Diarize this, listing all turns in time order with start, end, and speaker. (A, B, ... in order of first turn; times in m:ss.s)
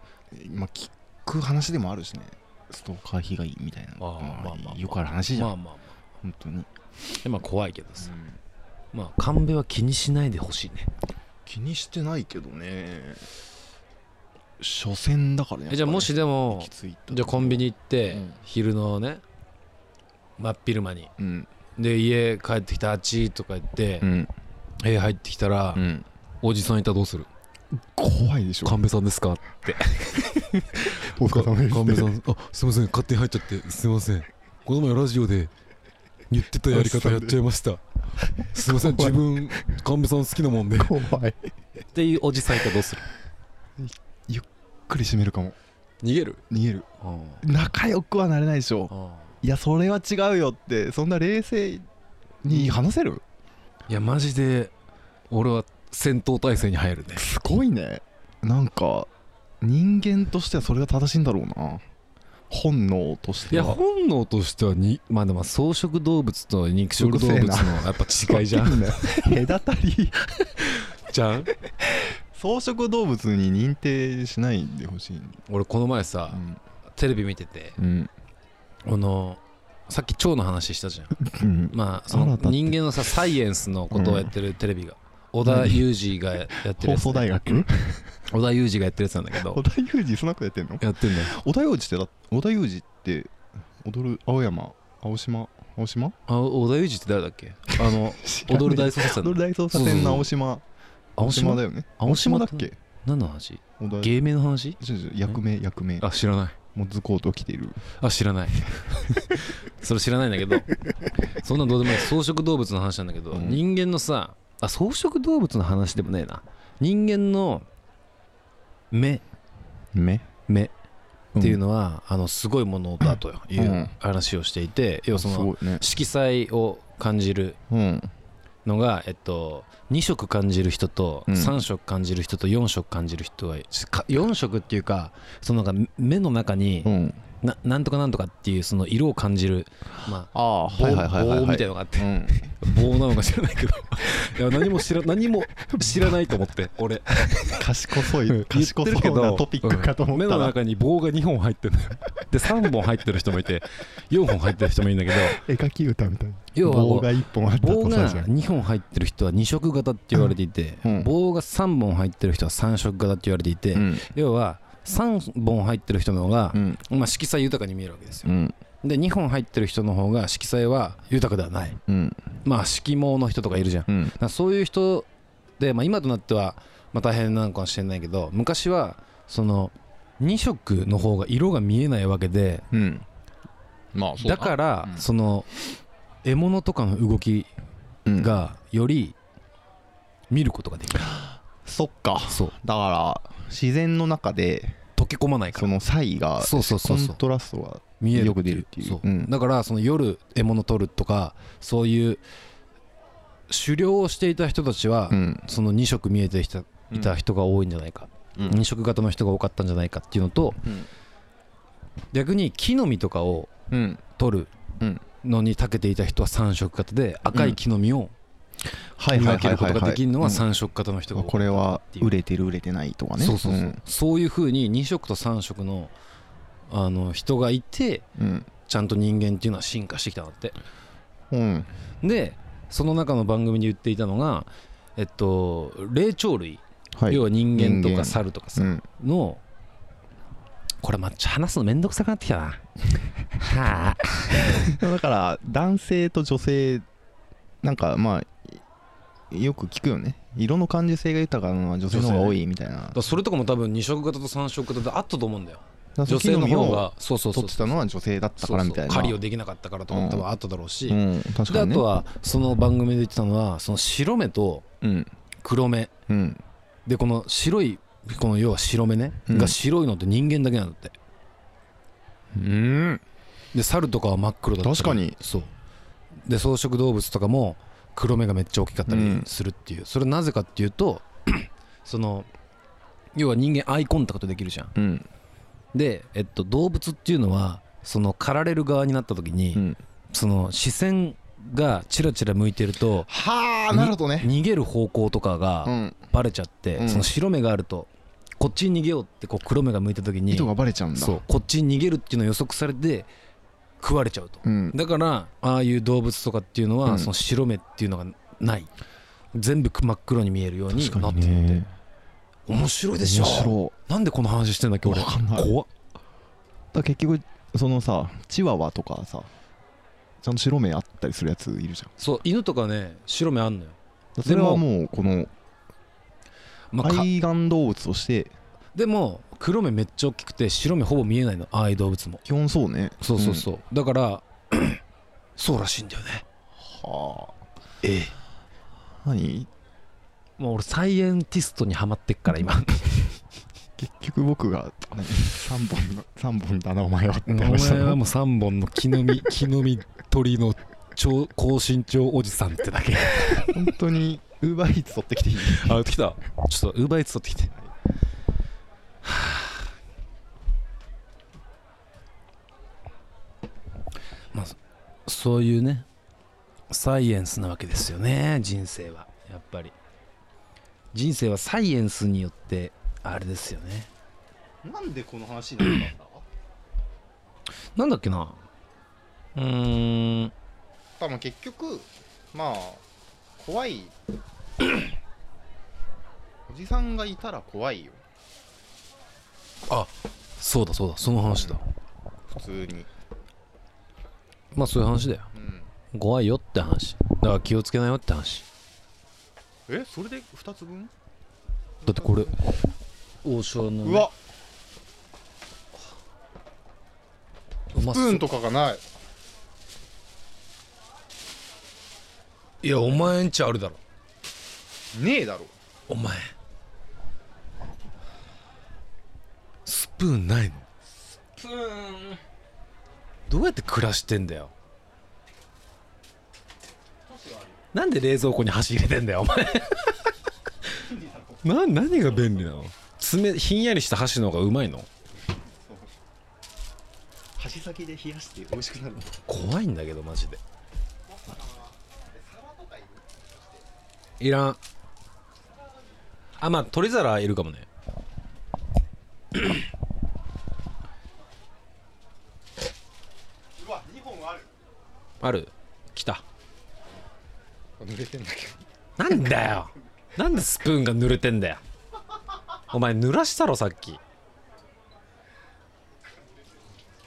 0:00.3-0:05.5 A
0:04.0-0:05.9 B
0:06.2-0:06.7 A
0:07.2-0:08.1 B
0:08.0-0:08.4 A
0:08.9-0:10.9 B
0:11.4-0:13.3 A
0:14.6-0:18.4 A
0:15.7-0:19.2 B
0:20.4-0:21.1 B
0:21.2-0:21.5 A
0:21.8-0:24.1 B
0:24.0-0:24.3 A
0:24.8-0:25.8 B
0:25.7-0:26.0 A
0:26.4-0:27.3 B
0:27.9-0:28.8 A
0:28.6-0:35.5 B
0:30.8-0:32.1 A
0:36.3-0:37.8 B
0:36.7-0:37.4 A
0:38.5-0:41.0 B
0:38.7-0:39.6 A
0:40.7-0:41.5 A
0:41.9-0:43.1 B
0:43.8-0:45.6 A
0:46.0-0:46.4 B
0:46.5-0:46.9 A
0:47.0-0:47.4 B
0:47.4-0:48.9 A
0:48.9-0:49.2 B
0:49.4-0:51.8 A
0:52.4-0:53.2 A
0:52.5-0:52.8 B
0:53.9-0:54.7 B
0:55.3-0:57.3 B
0:57.2-0:59.1 A
0:59.6-1:01.8 A
1:02.5-1:03.8 A
1:03.5-1:09.4 B
1:07.0-1:10.2 A
1:10.5-1:11.5 B
1:12.3-1:15.4 A
1:15.4-1:16.4 B
1:16.3-1:16.6 A
1:17.0-1:17.8 B
1:17.8-1:18.1 A
1:18.8-1:21.2 B
1:21.2-1:23.1 A
1:21.7-1:27.6 B
1:23.9-1:24.3 A
1:25.4-1:25.9 A
1:26.8-1:28.1 A
1:28.3-1:29.6 B
1:29.4-1:33.3 A
1:30.8-1:31.3 B
1:33.8-1:36.1 A
1:36.3-1:40.3 B
1:37.8-1:40.6 A
1:41.2-1:44.8 B
1:41.2-1:42.8 A
1:43.8-1:44.1 A
1:44.8-1:46.0 A
1:46.0-1:46.6 B
1:46.7-1:47.8 A
1:48.0-1:50.7 B
1:51.3-1:57.6 B
1:53.3-1:53.6 A
1:58.9-1:59.2 B
1:59.9-2:00.2 A
2:01.3-2:01.6 A
2:01.4-2:07.6 B
2:03.5-2:03.9 A
2:05.1-2:05.8 A
2:07.7-2:08.1 A
2:08.6-2:35.4 B
2:11.3-2:11.6 A
2:16.8-2:17.2 A
2:20.3-2:22.6 A
2:25.8-2:26.1 A
2:27.5-2:30.6 A
2:35.3-2:38.3 A
2:36.5-2:48.3 B
2:40.1-2:41.1 A
2:43.7-2:44.1 A
2:46.5-2:46.8 A
2:48.2-2:48.6 A
2:48.8-2:51.8 B
2:51.9-2:52.2 A
2:52.4-2:55.1 B
2:53.9-2:54.2 A
2:55.6-3:02.7 B
3:02.7-3:03.0 A
3:03.9-3:05.0 A
3:04.2-3:05.5 B
3:06.2-3:07.5 B
3:08.0-3:08.3 A
3:08.2-3:09.2 B
3:10.3-3:11.2 B
3:11.1-3:14.8 A
3:12.3-3:12.5 B
3:15.0-3:15.8 B
3:15.5-3:19.3 A
3:16.4-3:17.2 B
3:18.0-3:22.2 B
3:23.5-3:30.6 B
3:25.1-3:25.4 A
3:26.9-3:27.2 A
3:28.4-3:28.6 A
3:32.1-3:33.5 B
3:33.7-3:34.0 A
3:34.2-3:34.5 B
3:35.2-3:38.1 B
3:37.2-3:37.6 A
3:39.0-3:40.5 A
3:39.1-3:42.1 B
3:41.1-3:43.8 A
3:43.2-3:45.9 B
3:46.7-3:48.0 B
3:48.2-3:48.5 A
3:48.6-3:50.6 B
3:51.3-3:51.7 A
3:52.0-3:59.4 B
3:57.0-3:58.8 A
4:00.8-4:02.6 B
4:03.4-4:04.7 B
4:04.5-4:06.8 A
4:07.6-4:08.6 A
4:09.3-4:13.0 A
4:11.9-4:12.4 B
4:12.9-4:17.8 B
4:16.0-4:19.2 A
4:18.4-4:24.6 B
4:19.9-4:20.2 A
4:20.9-4:21.8 A
4:24.8-4:25.1 A
4:25.4-4:25.9 B
4:26.1-4:26.4 A
4:26.8-4:31.0 B
4:29.3-4:29.6 A
4:32.3-4:33.0 A
4:33.5-4:35.5 B
4:34.6-4:35.2 A
4:36.2-4:42.3 B
4:38.9-4:39.3 A
4:43.1-4:44.7 B
4:44.8-4:45.1 A
4:45.7-4:53.1 B
4:53.1-4:54.3 A
4:53.7-5:03.1 B
4:55.6-4:56.0 A
4:56.8-4:57.1 A
5:00.3-5:01.2 A
5:03.8-5:08.7 B
5:04.4-5:04.8 A
5:06.8-5:07.1 A
5:09.3-5:11.7 B
5:10.7-5:11.7 A
5:12.5-5:15.7 B
5:13.0-5:13.7 A
5:14.8-5:15.5 A
5:16.7-5:19.3 A
5:20.2-5:21.9 A
5:22.0-5:24.6 B
5:24.2-5:25.3 A
5:26.7-5:27.1 B
5:26.8-5:28.3 A
5:28.7-5:32.2 B
5:32.2-5:33.5 A
5:33.0-5:34.8 B
5:35.4-5:36.2 B
5:36.6-5:37.3 A
5:37.8-5:38.1 B
5:39.0-5:39.5 A
5:40.4-5:43.2 B
5:43.8-5:48.0 A
5:47.3-5:53.7 B
5:53.4-5:55.8 A
5:55.4-5:57.5 B
5:59.0-5:59.6 B
6:04.3-6:05.8 B
6:06.7-6:09.7 B
6:10.9-6:13.9 B
6:14.6-6:16.2 A
6:17.8-6:18.4 B
6:19.4-6:20.3 B
6:21.0-6:22.8 A
6:23.4-6:23.9 A
6:26.5-6:28.0 A
6:29.7-6:31.6 B
6:31.2-6:31.6 A
6:32.3-6:32.9 A
6:34.5-6:35.3 B
6:35.3-6:35.7 A
6:35.9-6:38.4 B
6:39.7-6:40.9 A
6:41.8-6:42.5 A
6:41.8-6:42.4 B
6:43.2-6:44.1 B
6:43.8-6:44.1 A
6:47.7-6:48.3 B
6:47.7-6:48.8 A
6:52.6-6:53.8 B
6:54.9-6:55.5 A
6:55.9-6:56.3 B
6:59.6-7:00.6 B
7:01.3-7:02.2 A
7:03.3-7:04.5 B
7:07.1-7:07.6 A
7:07.7-7:10.0 B
7:10.7-7:11.4 A
7:11.4-7:14.9 B
7:17.4-7:19.1 A
7:19.2-7:20.4 B
7:21.1-7:23.3 A
7:24.2-7:24.6 B
7:26.4-7:27.7 B
7:33.6-7:34.5 A
7:35.2-7:36.2 B
7:37.8-7:38.6 A
7:39.0-7:41.6 B
7:42.7-7:44.0 B